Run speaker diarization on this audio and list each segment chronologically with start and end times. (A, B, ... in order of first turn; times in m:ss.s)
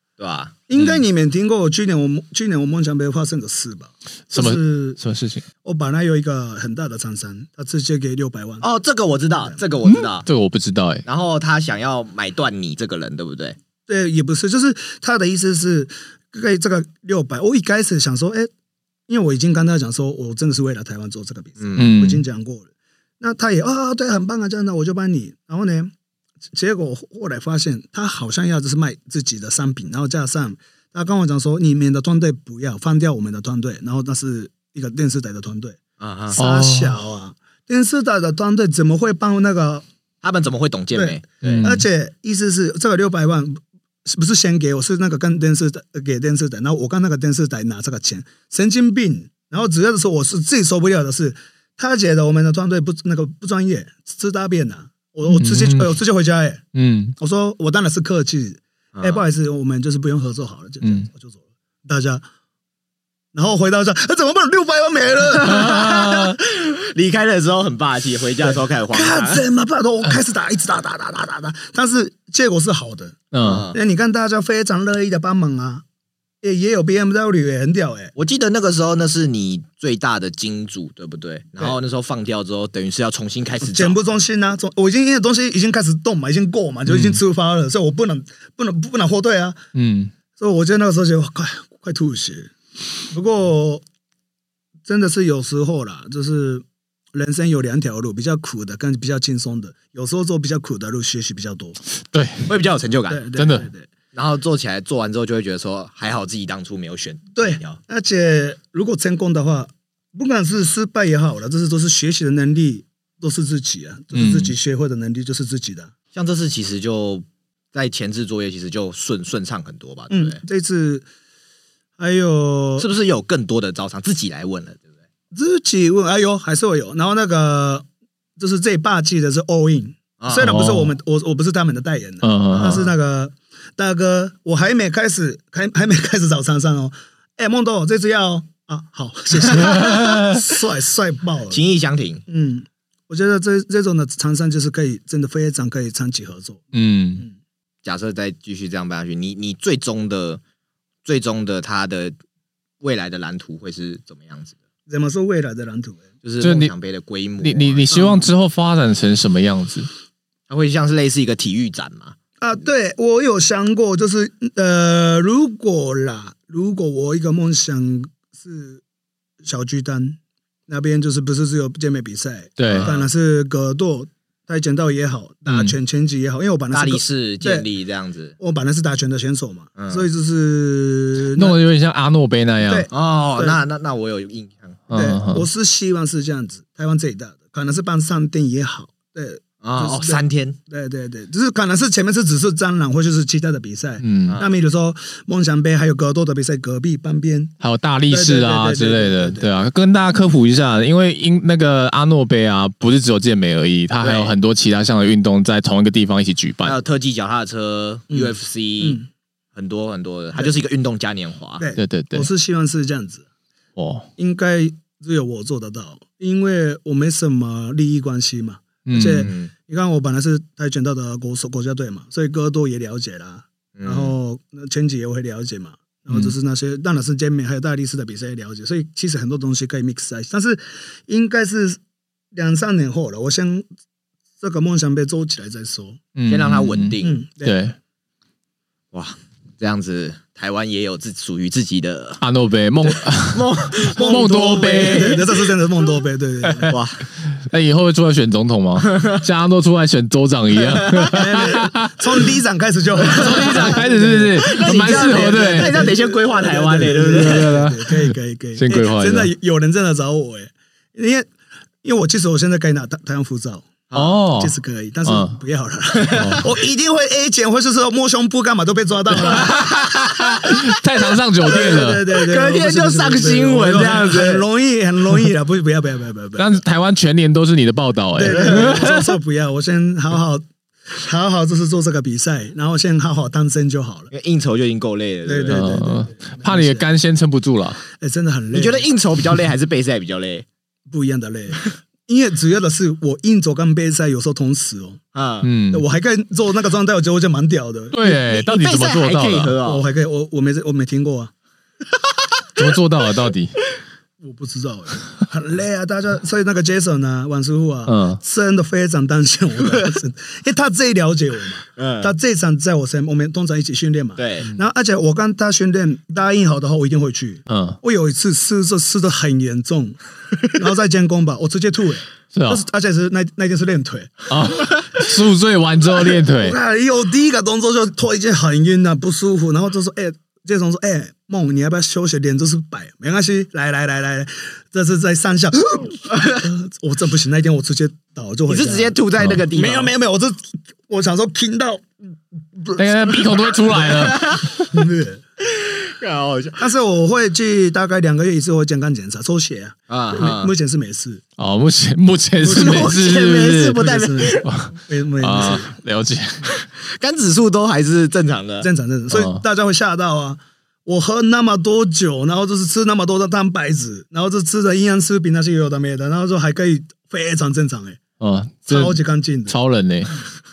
0:00.2-0:00.6 A
0:00.7-0:05.0 B
0:04.3-0:05.5 C
0:05.6-0:08.7 B
0:08.6-0:10.3 A
0:09.8-0:11.0 C
0:11.1-0:13.6 A
0:13.9-0:18.5 B
0:19.1-0:22.7 B
0:21.6-0:21.9 A
0:21.8-0:22.2 C
0:23.2-0:25.9 B
0:26.5-0:35.8 B
0:36.0-0:36.4 A
0:36.3-0:39.8 B
0:36.4-0:37.0 C
0:40.2-0:41.7 A
0:41.0-0:56.6 B
0:41.4-0:41.8 C
0:55.3-0:55.9 C
0:56.7-0:57.2 C
0:57.2-1:02.2 B
0:59.0-0:59.2 A
1:00.8-1:01.1 C
1:03.3-1:06.2 B
1:05.5-1:06.3 C
1:05.8-1:09.4 A
1:08.4-1:13.2 B
1:13.3-1:13.6 C
1:13.4-1:13.8 A
1:13.7-1:15.8 B
1:16.4-1:18.1 B
1:18.2-1:24.0 A
1:23.6-1:29.6 B
1:26.9-1:27.2 C
1:29.7-1:30.1 C
1:30.4-1:32.5 B
1:33.1-1:33.8 B
1:34.9-1:41.8 B
1:42.0-1:42.5 C
1:42.5-1:43.2 A
1:43.1-1:43.9 B
1:43.4-1:43.7 C
1:44.1-1:47.8 A
1:47.4-1:55.9 B
1:54.1-1:54.5 C
1:56.1-2:00.4 A
2:00.1-2:01.1 B
2:02.0-2:02.9 B
2:02.8-2:04.8 A
2:05.3-2:07.8 B
2:08.4-2:21.6 B
2:10.2-2:10.5 A
2:10.4-2:10.9 C
2:12.2-2:12.8 C
2:12.5-2:12.9 A
2:19.5-2:20.4 C
2:21.5-2:22.2 A
2:22.3-2:26.7 B
2:26.7-2:27.2 C
2:27.8-2:30.4 A
2:31.0-2:32.2 A
2:32.8-2:34.5 A
2:34.9-2:36.1 B
2:36.2-2:37.9 A
2:36.4-2:36.7 C
2:37.4-2:39.9 C
2:37.9-2:38.3 B
2:40.5-2:42.2 A
2:42.4-2:48.8 B
2:49.4-2:57.7 B
2:52.6-2:52.9 C
2:52.7-2:53.1 A
2:55.5-2:55.8 C
2:56.7-2:58.4 A
2:58.4-3:01.6 B
2:59.8-3:00.1 A
3:01.3-3:02.9 C
3:02.6-3:03.6 B
3:02.9-3:04.9 A
3:04.9-3:05.5 C
3:04.9-3:17.5 B
3:09.6-3:10.6 A
3:14.0-3:14.4 C
3:14.3-3:14.5 A
3:17.6-3:26.8 C
3:18.1-3:19.5 B
3:24.0-3:24.3 A
3:26.6-3:29.0 A
3:28.1-3:29.1 B
3:29.5-3:31.6 A
3:31.6-3:33.2 B
3:31.8-3:32.3 C
3:33.8-3:34.1 C
3:34.2-3:51.8 B
3:38.9-3:39.3 C
3:39.2-3:39.5 A
3:43.8-3:44.1 A
3:46.1-3:46.3 C
3:52.3-3:53.7 B
3:54.4-3:56.0 B
3:56.2-3:57.8 C
3:56.3-3:57.2 A
3:57.0-3:57.6 B
3:58.9-4:02.2 A
4:02.2-4:05.2 C
4:03.3-4:05.2 A
4:03.9-4:06.8 B
4:06.5-4:11.9 C
4:06.7-4:07.0 A
4:08.9-4:09.2 A
4:10.6-4:11.2 A
4:11.1-4:21.3 B
4:13.0-4:15.9 C
4:13.1-4:17.6 A
4:16.9-4:19.3 C
4:21.8-4:23.8 B
4:23.9-4:24.2 A
4:23.9-4:25.4 C
4:24.3-4:29.6 B
4:26.0-4:26.4 A
4:26.1-4:26.4 C
4:29.2-4:32.0 C
4:31.4-4:36.6 B
4:31.8-4:34.4 A
4:36.4-4:39.1 C
4:38.2-4:44.1 B
4:44.1-4:45.7 A
4:45.2-4:46.9 B
4:45.5-4:47.8 C
4:48.0-4:48.9 B
4:48.5-4:50.5 A
4:50.9-4:55.0 B
4:55.1-4:55.5 A
4:55.4-4:55.8 C
4:55.7-4:58.4 B
4:57.9-4:59.6 C
4:58.3-4:59.8 A
4:59.6-5:01.3 B
5:02.6-5:03.5 C
5:04.2-5:24.7 B
5:07.9-5:08.2 C
5:11.8-5:12.1 A
5:14.2-5:14.5 A
5:17.5-5:17.8 C
5:22.3-5:22.6 C
5:24.3-5:26.6 C
5:26.3-5:39.0 B
5:38.5-5:39.9 A
5:39.2-5:39.4 C
5:39.5-5:43.2 B
5:42.8-5:44.4 C
5:43.7-5:44.7 A
5:44.7-5:45.2 B
5:45.5-5:46.6 A
5:46.6-5:51.2 B
5:49.9-5:50.5 A
5:51.4-5:53.8 C
5:52.4-5:53.1 B
5:52.5-5:54.5 A
5:53.7-5:55.7 B
5:54.4-5:56.6 C
5:56.6-5:58.7 A
5:58.6-6:08.0 B
5:59.1-5:59.4 C
6:08.2-6:10.2 C
6:08.7-6:09.6 B